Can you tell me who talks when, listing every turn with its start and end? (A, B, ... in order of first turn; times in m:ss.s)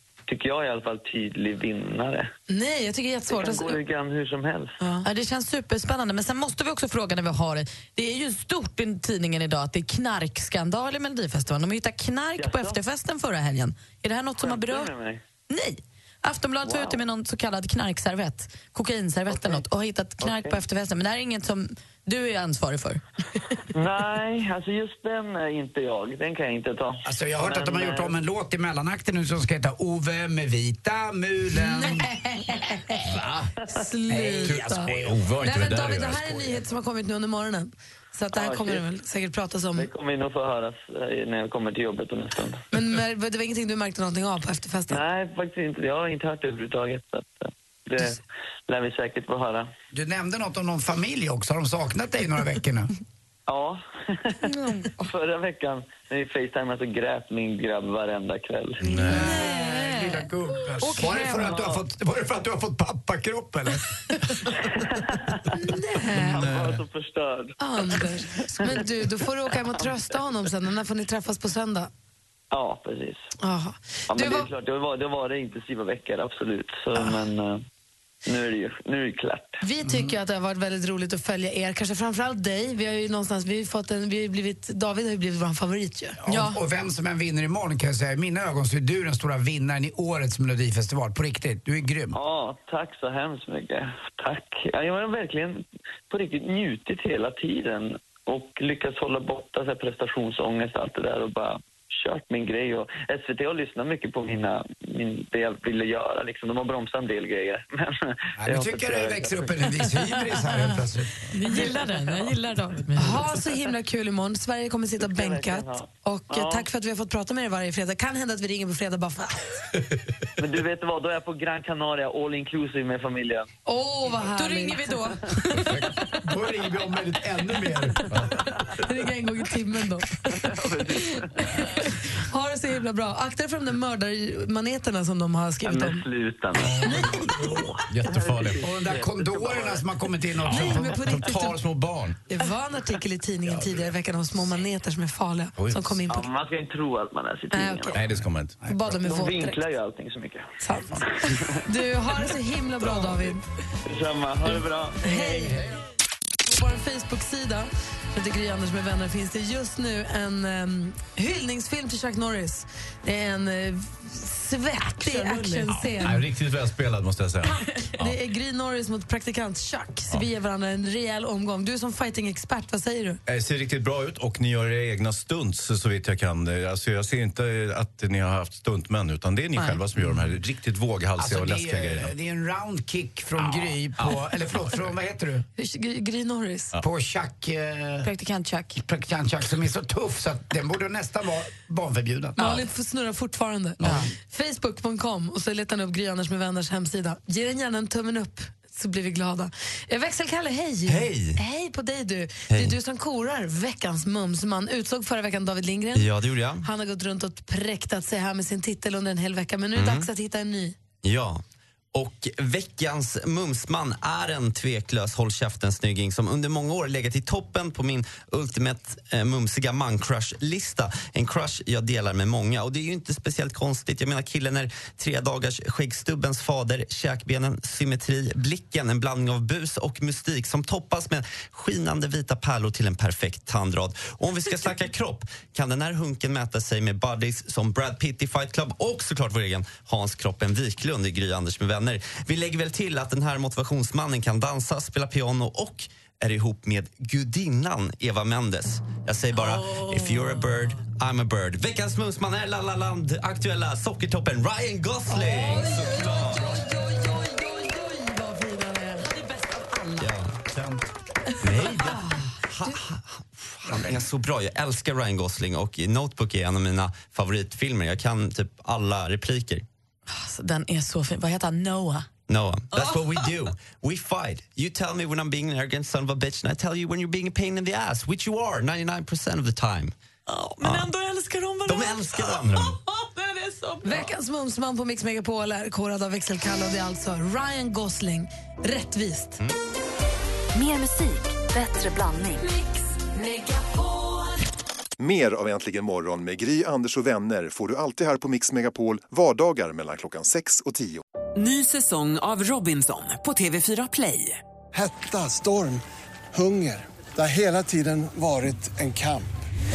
0:00.3-0:02.3 A
0:02.5-0:03.8 B
0:03.3-0:04.8 A
0:04.8-0:05.1 B
0:05.0-0:14.9 C
0:12.4-0:12.8 A
0:14.4-0:15.2 A
0:15.5-0:23.6 C
0:16.6-0:17.0 A
0:19.3-0:19.6 A
0:20.2-0:20.6 A
0:23.7-0:28.2 A
0:27.0-0:32.1 D
0:31.6-0:32.7 B
0:33.0-0:33.4 D
0:33.7-0:39.9 B
0:34.1-0:36.7 D
0:35.1-0:36.0 E
0:38.3-0:38.8 A
0:39.8-0:42.6 A
0:42.7-0:45.0 B
0:44.9-0:49.7 A
0:49.9-0:52.9 D
0:53.5-0:58.9 A
0:54.4-0:55.1 C
0:58.8-0:59.3 E
0:58.9-1:03.9 D
0:59.0-1:00.3 C
1:00.8-1:01.6 C
1:01.3-1:01.8 A
1:04.5-1:05.6 A
1:05.6-1:06.4 B
1:06.2-1:07.6 A
1:06.2-1:06.8 E
1:07.6-1:11.9 B
1:08.4-1:08.8 A
1:09.6-1:09.9 A
1:12.5-1:13.3 A
1:13.4-1:14.5 B
1:14.1-1:17.6 A
1:18.3-1:19.6 A
1:19.6-1:26.2 B
1:19.8-1:20.1 D
1:26.2-1:32.2 D
1:26.3-1:26.6 C
1:32.1-1:49.9 A
1:48.4-1:51.2 D
1:50.3-1:50.6 C
1:51.3-1:53.4 C
1:53.0-1:59.5 B
1:55.0-1:56.7 A
2:00.4-2:03.5 A
2:03.6-2:04.9 B
2:04.4-2:06.2 C
2:05.8-2:08.2 D
2:08.3-2:08.7 A
2:08.8-2:16.0 B
2:10.4-2:11.5 A
2:15.6-2:19.9 A
2:16.6-2:17.8 D
2:16.7-2:17.4 B
2:17.9-2:18.6 E
2:18.6-2:21.0 D
2:20.5-2:21.6 B
2:20.5-2:22.2 E
2:22.3-2:26.3 B
2:23.5-2:23.8 E
2:25.6-2:26.0 E
2:26.1-2:28.0 A
2:27.5-2:28.0 B
2:27.9-2:28.6 E
2:28.6-2:29.6 B
2:29.0-2:31.6 A
2:30.6-2:33.4 B
2:32.8-2:33.3 A
2:33.9-2:35.6 A
2:34.5-2:35.6 B
2:36.5-2:46.3 B
2:44.9-2:45.8 C
2:46.0-2:48.2 E
2:47.4-2:47.9 C
2:48.0-2:53.2 B
2:53.3-3:02.1 E
3:01.2-3:05.5 D
3:05.6-3:06.8 B
3:06.8-3:08.1 D
3:08.0-3:08.8 C
3:08.8-3:12.5 D
3:12.4-3:12.6 C
3:12.4-3:26.1 B
3:13.8-3:14.1 D
3:20.9-3:21.4 F
3:22.5-3:22.8 F
3:25.9-3:26.7 F
3:26.6-3:30.8 B
3:29.8-3:30.1 F
3:31.0-3:31.4 F
3:31.9-4:16.6 F
4:09.4-4:10.4 C
4:15.1-4:19.1 B
4:19.0-4:20.1 C
4:20.0-4:20.4 F
4:20.4-4:20.9 D
4:21.4-4:29.6 F
4:21.7-4:22.2 B
4:23.7-4:24.0 D
4:30.1-4:32.1 C
4:32.3-4:39.9 F
4:32.7-4:33.4 C
4:40.3-4:44.1 C
4:41.7-4:42.8 F
4:43.8-4:49.4 B
4:50.5-4:52.4 G
4:52.4-4:53.8 C
4:55.0-5:01.0 H
5:01.4-5:04.4 I
5:04.7-5:09.3 J